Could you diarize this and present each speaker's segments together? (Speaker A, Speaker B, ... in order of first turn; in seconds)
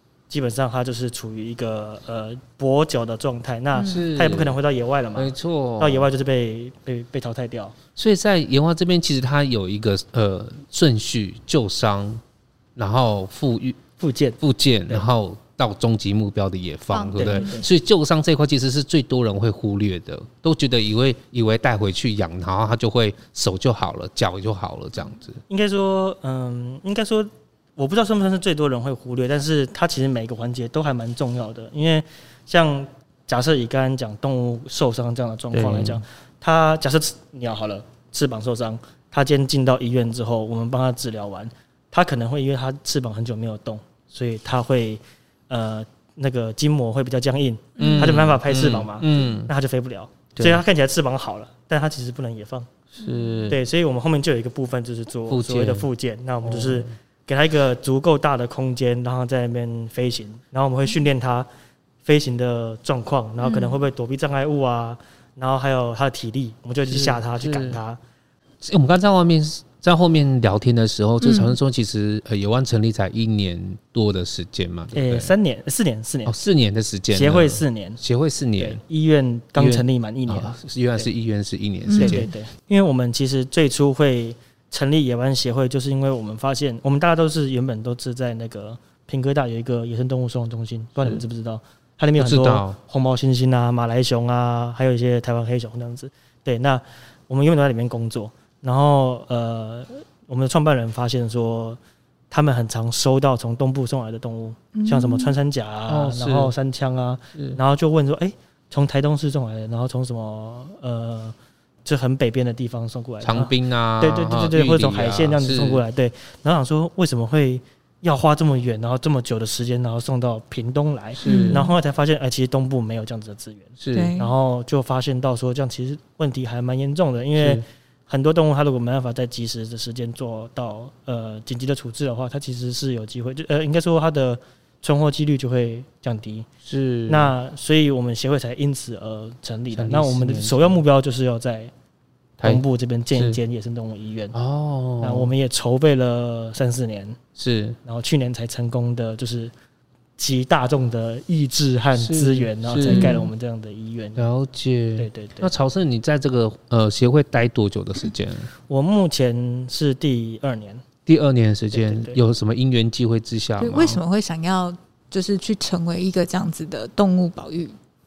Speaker A: 0.3-7.8, 14.0-15.1, 17.2-17.7, 25.5-52.7, 53.5-61.5, 62.0-68.0, 74.9-76.4, 77.1-78.0, 78.6-81.1, 82.0-101.8, 102.3-136.5, 137.1-141.7, 142.4-144.3, 145.0-147.2, 147.8-149.5, 150.2-154.2, 155.0-155.5, 158.7-160.8, 161.7-162.2
Speaker B: 3.8-4.0, 16.9-17.6, 47.8-48.2, 53.0-53.5, 63.4-63.8, 71.2-71.6, 81.9-82.3, 104.7-105.3, 121.2-121.7, 123.9-124.3, 152.9-153.2, 163.6-167.8
Speaker C: 3.8-4.6, 5.2-6.1, 8.0-12.2, 12.8-13.8, 14.4-25.4, 35.5-36.0, 47.8-49.5, 50.4-50.6, 53.0-53.6, 55.3-55.9, 56.4-56.9, 66.9-67.8, 68.6-75.3, 76.3-78.8, 79.6-82.3, 92.2-92.8, 105.9-106.5, 113.2-115.8, 121.2-121.6, 123.8-124.1, 127.4-127.6, 136.7-137.3, 139.7-140.8, 142.4-143.4, 144.3-145.3, 147.4-147.8, 152.0-153.3, 154.2-158.5, 161.1-164.0